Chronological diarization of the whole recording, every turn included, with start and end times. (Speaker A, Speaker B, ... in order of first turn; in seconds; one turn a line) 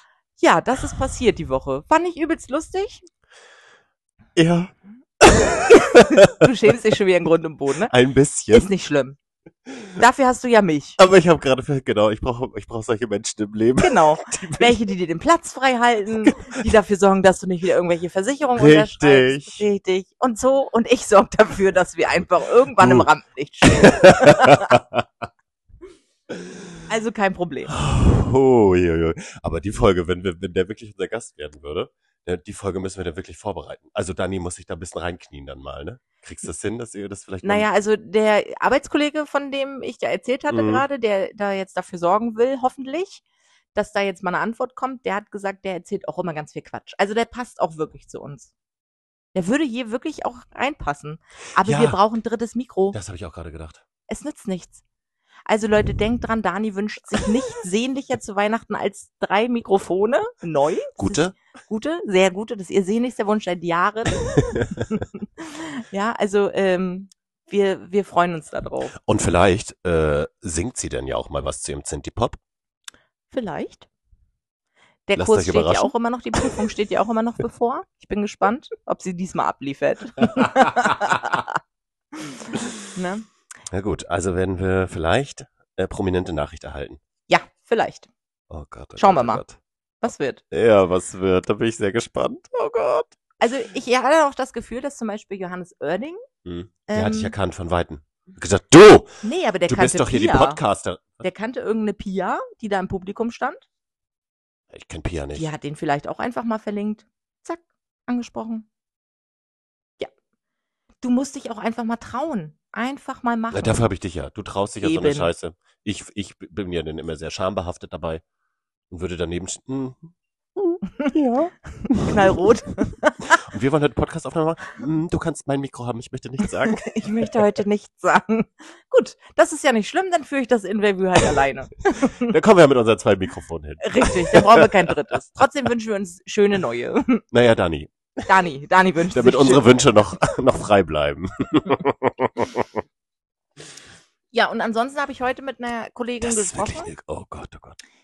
Speaker A: 0.4-3.0
Speaker B: 4.3-6.5
Speaker A: 5.6-7.9
Speaker B: 7.9-8.7
Speaker A: 8.5-9.2
Speaker B: 9.7-9.9
Speaker A: 10.0-11.0
Speaker B: 11.0-14.8
Speaker A: 13.8-24.7
Speaker B: 16.2-16.6
Speaker B: 18.6-19.6
Speaker B: 22.8-23.1
Speaker B: 23.6-25.1
Speaker B: 26.3-26.8
Speaker A: 26.9-27.7
Speaker B: 27.7-37.7
Speaker A: 37.4-43.2
Speaker B: 40.5-40.8
Speaker A: 43.7-48.5
Speaker A: 49.3-53.0
Speaker B: 51.6-52.0
Speaker B: 52.9-53.8
Speaker A: 54.1-54.8
Speaker A: 55.5-68.9
Speaker B: 61.0-61.4
Speaker B: 64.4-64.9
Speaker B: 69.0-72.4
Speaker A: 73.3-73.9
Speaker A: 75.1-81.6
Speaker B: 75.2-75.9
Speaker B: 80.3-81.3
Speaker A: 82.1-83.2
Speaker B: 83.7-87.0
Speaker A: 87.3-88.1
Speaker B: 88.5-89.6
Speaker A: 89.0-89.4
Speaker A: 90.0-90.4
Speaker B: 90.5-93.2
Speaker A: 93.4-96.2
Speaker B: 96.4-99.1
Speaker A: 96.9-97.3
Speaker A: 99.2-100.6
Speaker B: 99.7-101.2
Speaker A: 101.2-103.6
Speaker B: 104.7-105.5
Speaker A: 105.3-108.7
Speaker A: 111.0-113.8
Speaker B: 113.5-118.2
Speaker A: 114.8-115.3
Speaker B: 118.9-122.5
Speaker A: 121.8-123.4
Speaker B: 123.3-127.3
Speaker A: 126.7-132.3
Speaker B: 132.2-134.9
Speaker A: 133.8-137.2
Speaker B: 137.3-138.3
Speaker A: 138.3-139.7
Speaker B: 139.1-142.8
Speaker A: 144.3-146.9
Speaker B: 146.2-147.8